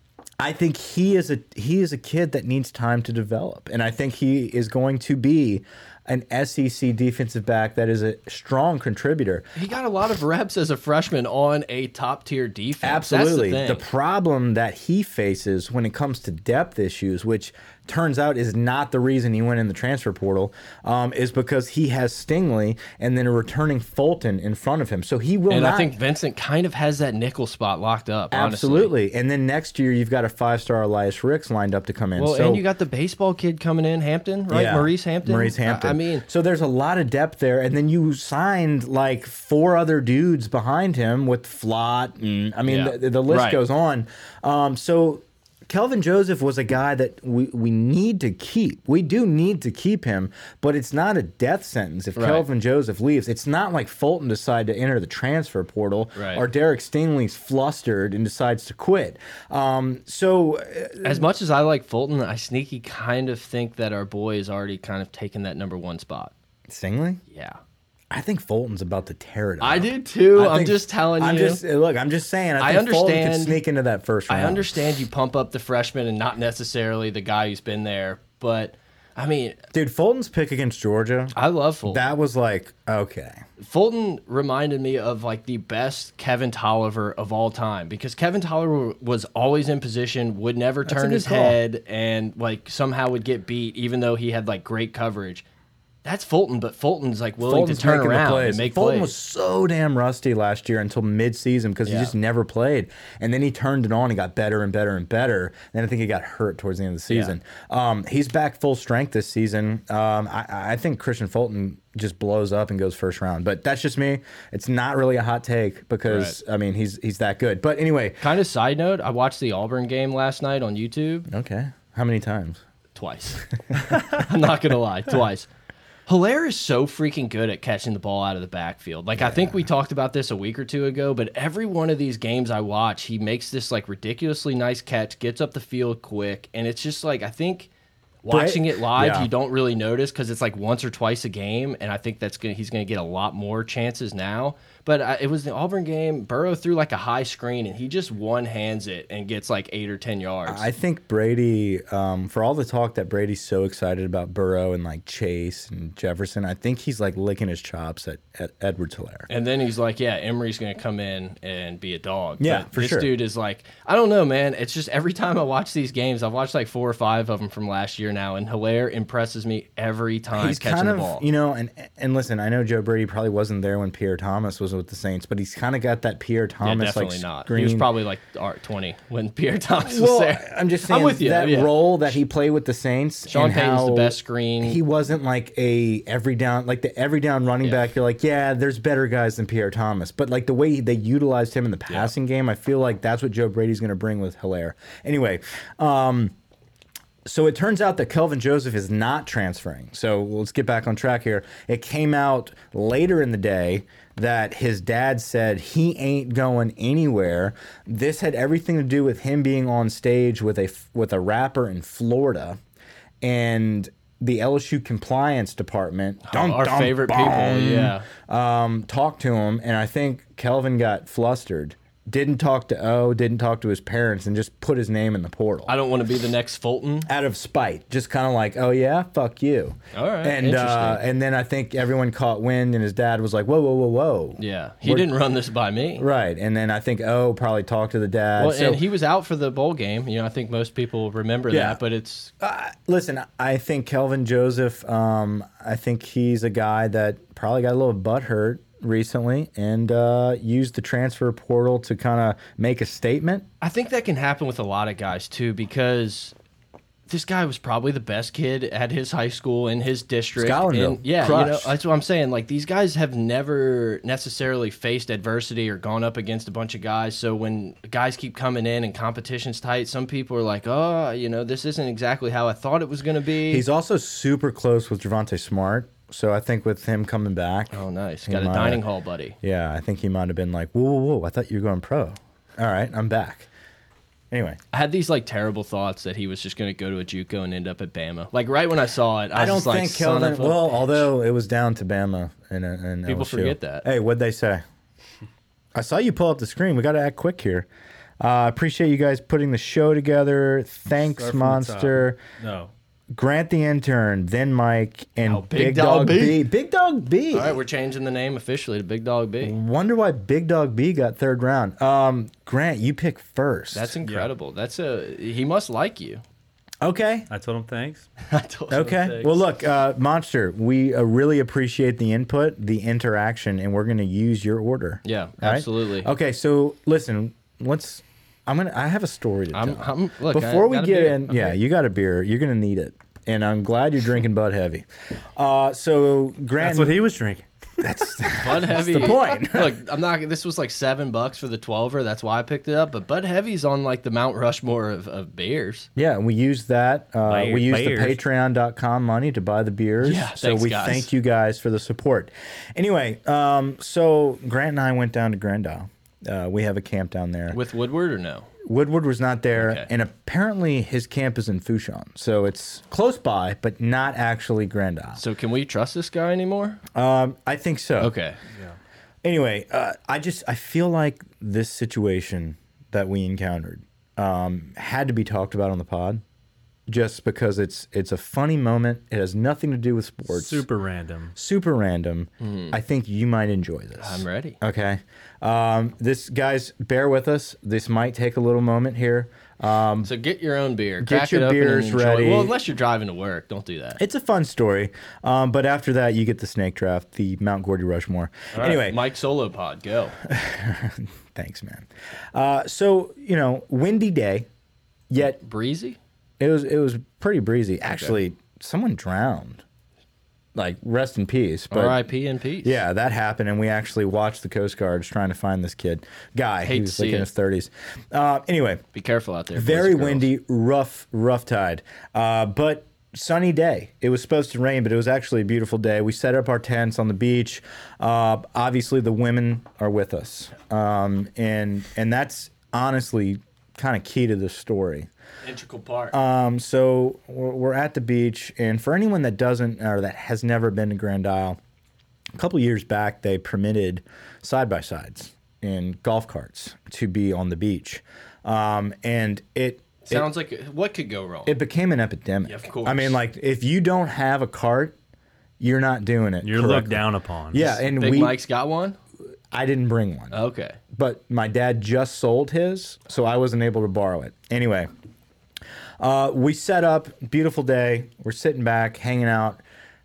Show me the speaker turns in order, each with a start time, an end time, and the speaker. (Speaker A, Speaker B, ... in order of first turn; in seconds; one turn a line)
Speaker A: 0.4-9.5
Speaker B: 9.6-13.8
Speaker A: 12.8-25.9
Speaker B: 25.5-28.9
Speaker A: 28.3-32.6
Speaker B: 32.2-36.2
Speaker A: 34.5-61.3
Speaker B: 42.7-43.6
Speaker B: 52.2-52.5
Speaker B: 56.1-56.4
Speaker B: 61.0-66.3
Speaker A: 66.7-67.2
Speaker B: 67.3-67.6
Speaker A: 68.1-74.8
Speaker B: 69.6-71.6
Speaker B: 72.6-73.6
Speaker B: 74.3-79.6
Speaker A: 79.7-81.3
Speaker B: 81.3-82.0
Speaker A: 81.9-83.4
Speaker B: 83.6-95.5
Speaker A: 90.9-91.6
Speaker B: 96.0-99.1
Speaker A: 97.4-118.2
Speaker B: 101.8-102.1
Speaker B: 107.1-107.4
Speaker B: 116.1-116.4
Speaker B: 118.2-121.3
Speaker A: 121.3-122.6
Speaker B: 123.0-125.5
Speaker B: 126.1-137.7
Speaker A: 129.2-129.5
Speaker B: 138.2-150.7
Speaker A: 138.3-139.3
Speaker A: 150.5-159.3
Speaker B: 159.3-171.2
Speaker A: 162.4-163.1
Speaker A: 170.3-177.9
Speaker B: 176.6-181.9
Speaker A: 179.8-196.3
Speaker B: 183.3-184.8
Speaker A: 197.2-212.6
Speaker A: 213.2-225.7
Speaker B: 216.2-218.1
Speaker B: 225.7-227.1
Speaker A: 227.1-235.1
Speaker B: 229.9-231.0
Speaker B: 234.4-236.1
Speaker A: 236.0-238.8
Speaker B: 238.4-242.3
Speaker A: 241.5-241.8
Speaker A: 242.4-253.5
Speaker B: 253.6-256.3
Speaker B: 257.1-273.6
Speaker A: 260.4-261.7
Speaker A: 273.5-277.7
Speaker B: 277.7-279.4
Speaker A: 278.3-278.8
Speaker A: 279.4-283.5
Speaker A: 284.3-284.6
Speaker B: 284.7-291.1
Speaker A: 289.3-294.6
Speaker B: 293.1-293.9
Speaker A: 295.8-297.7
Speaker A: 298.2-302.2
Speaker C: 301.0-302.7
Speaker A: 303.1-307.6
Speaker B: 305.2-306.4
Speaker B: 307.3-309.6
Speaker A: 309.4-314.0
Speaker B: 313.7-316.2
Speaker C: 314.1-314.3
Speaker A: 316.8-317.3
Speaker C: 317.3-318.1
Speaker B: 318.2-319.4
Speaker A: 318.7-337.0
Speaker B: 325.0-326.1
Speaker B: 329.5-331.5
Speaker C: 336.6-337.8
Speaker A: 337.8-339.7
Speaker B: 338.3-345.9
Speaker A: 346.0-357.6
Speaker C: 347.3-348.2
Speaker B: 350.0-351.1
Speaker B: 357.5-358.5
Speaker A: 358.6-365.2
Speaker B: 359.6-359.9
Speaker B: 365.2-366.8
Speaker A: 366.9-368.1
Speaker B: 368.0-368.4
Speaker A: 369.2-376.2
Speaker A: 376.9-380.6
Speaker C: 380.3-381.4
Speaker A: 381.4-390.1
Speaker B: 382.4-382.8
Speaker B: 384.0-384.6
Speaker B: 390.0-394.0
Speaker A: 391.0-392.5
Speaker A: 394.0-399.0
Speaker B: 398.5-400.2
Speaker A: 400.2-404.5
Speaker A: 405.1-405.4
Speaker B: 405.3-406.0
Speaker A: 406.4-409.6
Speaker A: 410.6-412.0
Speaker B: 411.7-412.8
Speaker A: 412.6-418.8
Speaker B: 416.6-417.3
Speaker B: 418.9-420.3
Speaker A: 419.5-435.1
Speaker B: 435.4-436.1
Speaker A: 436.1-441.6
Speaker A: 442.4-450.3
Speaker B: 450.1-451.6
Speaker A: 451.5-455.0
Speaker B: 452.4-453.2
Speaker A: 455.6-458.4
Speaker C: 456.4-457.7
Speaker B: 457.6-459.0
Speaker A: 459.5-460.4
Speaker B: 460.3-460.8
Speaker A: 460.9-464.9
Speaker A: 466.0-469.6